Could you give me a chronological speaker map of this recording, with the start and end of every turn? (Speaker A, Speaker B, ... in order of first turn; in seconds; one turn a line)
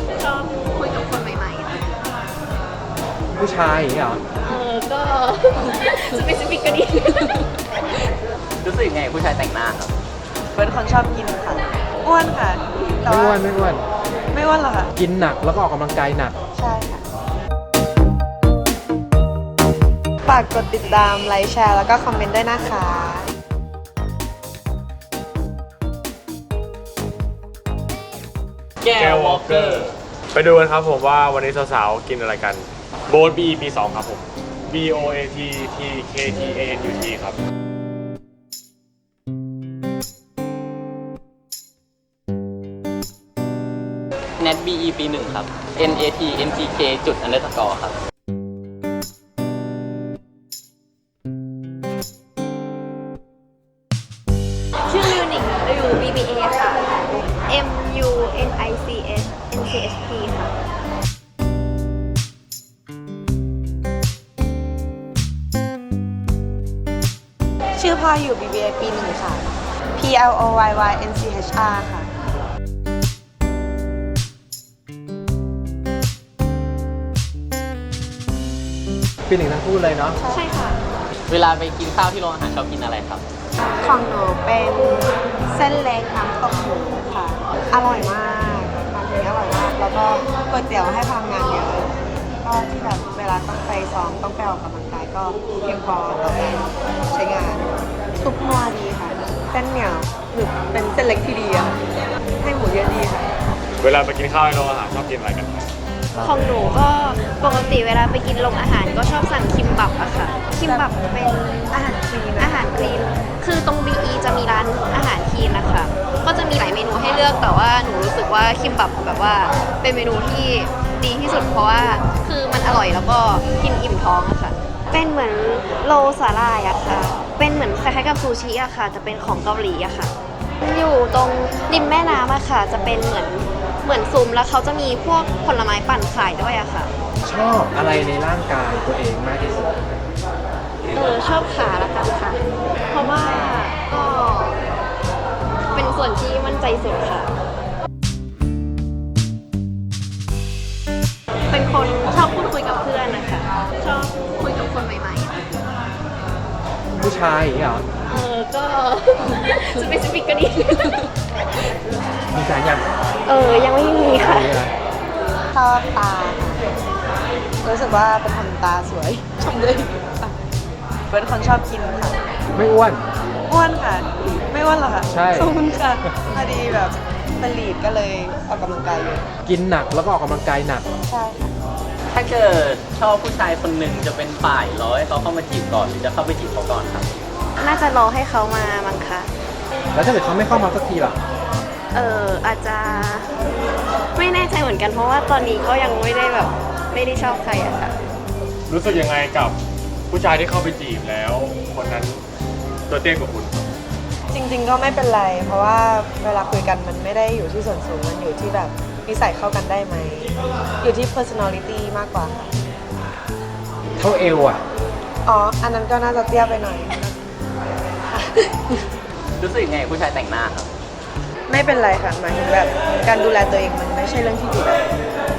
Speaker A: 0.1-2.0
Speaker B: 3.4-4.2
Speaker A: 4.4-7.5
Speaker C: 8.6-9.9
Speaker D: 10.5-13.4
Speaker B: 13.1-13.9
Speaker D: 14.3-14.9
Speaker B: 15.0-16.4
Speaker D: 16.6-17.0
Speaker D: 20.3-23.3
Speaker C: 28.8-30.0
Speaker E: 28.9-37.4
Speaker C: 44.4-48.0
Speaker A: 54.9-56.9
Speaker A: 57.5-60.5
Speaker D: 67.8-72.1
Speaker B: 79.3-80.2
Speaker D: 80.2-80.5
Speaker A: 80.3-80.8
Speaker C: 81.3-83.2
Speaker D: 83.8-101.9
Speaker D: 102.4-103.3
Speaker E: 103.8-105.7
Speaker A: 106.2-111.8
Speaker D: 110.7-110.9
Speaker D: 111.7-112.9
Speaker A: 112.4-136.9
Speaker B: 137.2-139.7
Speaker A: 140.9-144.6
Speaker A: 145.7-147.3
Speaker A: 151.5-155.4
Speaker B: 156.9-157.9
Speaker A: 158.1-161.1
Speaker B: 162.3-162.9
Speaker A: 163.3-164.5
Speaker B: 164.2-164.7
Speaker D: 165.5-166.6
Speaker D: 167.6-170.3
Speaker D: 171.1-172.2
Speaker B: 172.5-173.0
Speaker D: 173.5-179.3
Speaker B: 175.1-175.6
Speaker B: 179.4-180.9
Speaker D: 181.1-181.5
Speaker C: 182.1-187.2
Speaker A: 187.6-189.3
Speaker B: 189.9-191.2
Speaker A: 191.9-193.3
Speaker A: 194.1-198.0
Speaker E: 198.7-199.6
Speaker E: 200.1-202.2
Speaker E: 202.9-203.7
Speaker D: 204.3-212.5
Speaker B: 214.0-214.6
Speaker D: 215.2-217.1
Speaker D: 218.1-218.8
Speaker C: 219.4-220.7
Speaker D: 221.5-224.9